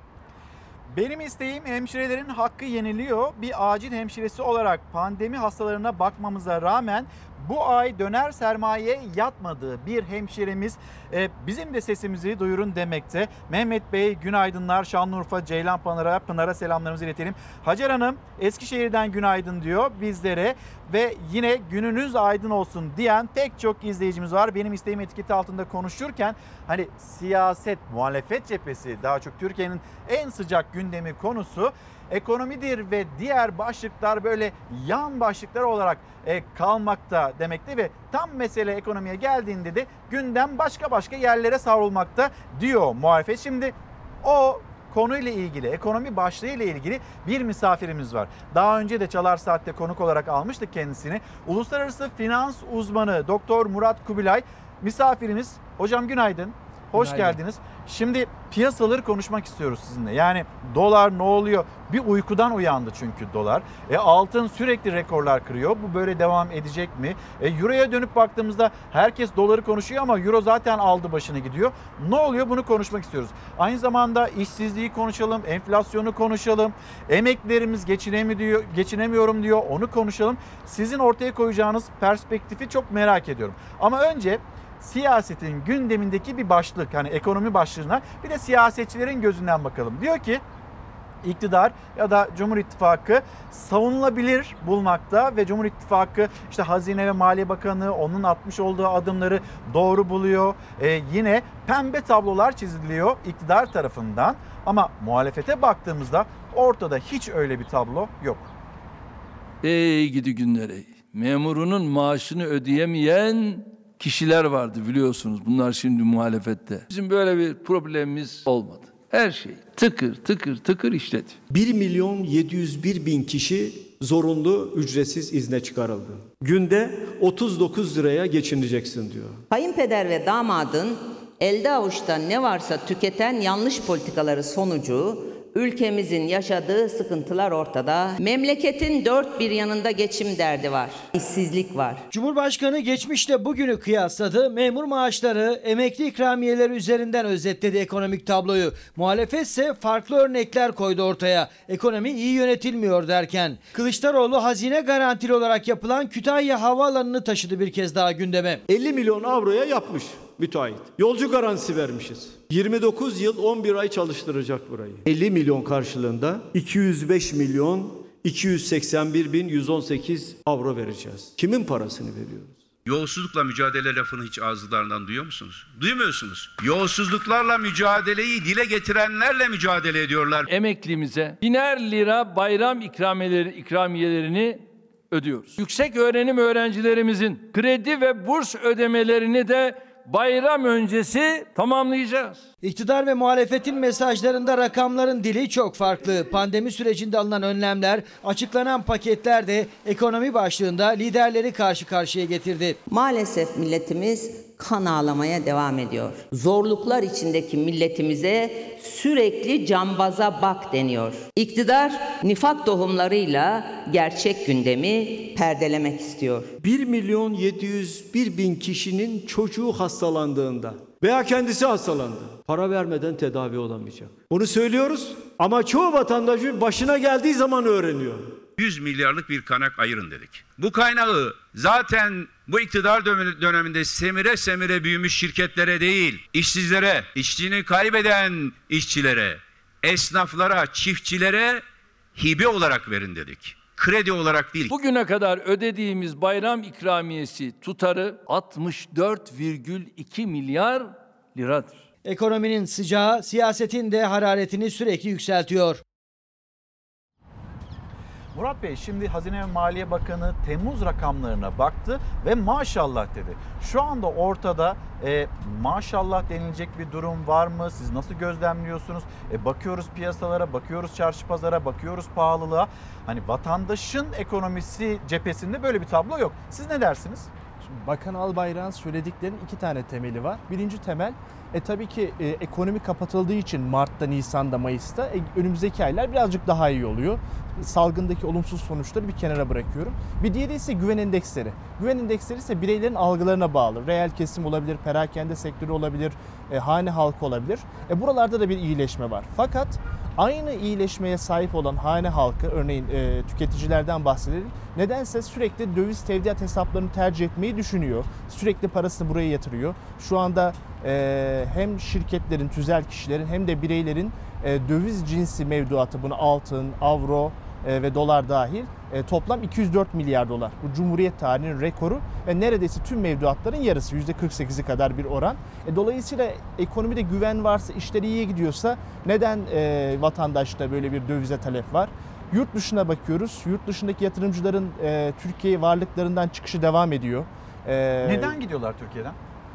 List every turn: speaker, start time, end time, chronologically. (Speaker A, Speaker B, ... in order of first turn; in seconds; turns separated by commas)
Speaker A: 0.9-90.4, Speaker A: 91.2-108.5, Speaker B: 109.6-121.4, Speaker C: 121.5-129.4, Speaker D: 129.5-142.1, Speaker E: 142.1-158.6, Speaker C: 158.7-172.5, Speaker F: 172.8-180.4, Speaker B: 180.4-192.5, Speaker E: 192.6-202.8, Speaker D: 202.8-216.5, Speaker C: 216.6-228.3, Speaker F: 228.6-241.6, Speaker F: 242.1-244.7, Speaker B: 244.7-251.8, Speaker E: 252.0-255.8, Speaker A: 258.3-277.3, Speaker G: 277.6-338.3, Speaker A: 338.0-339.2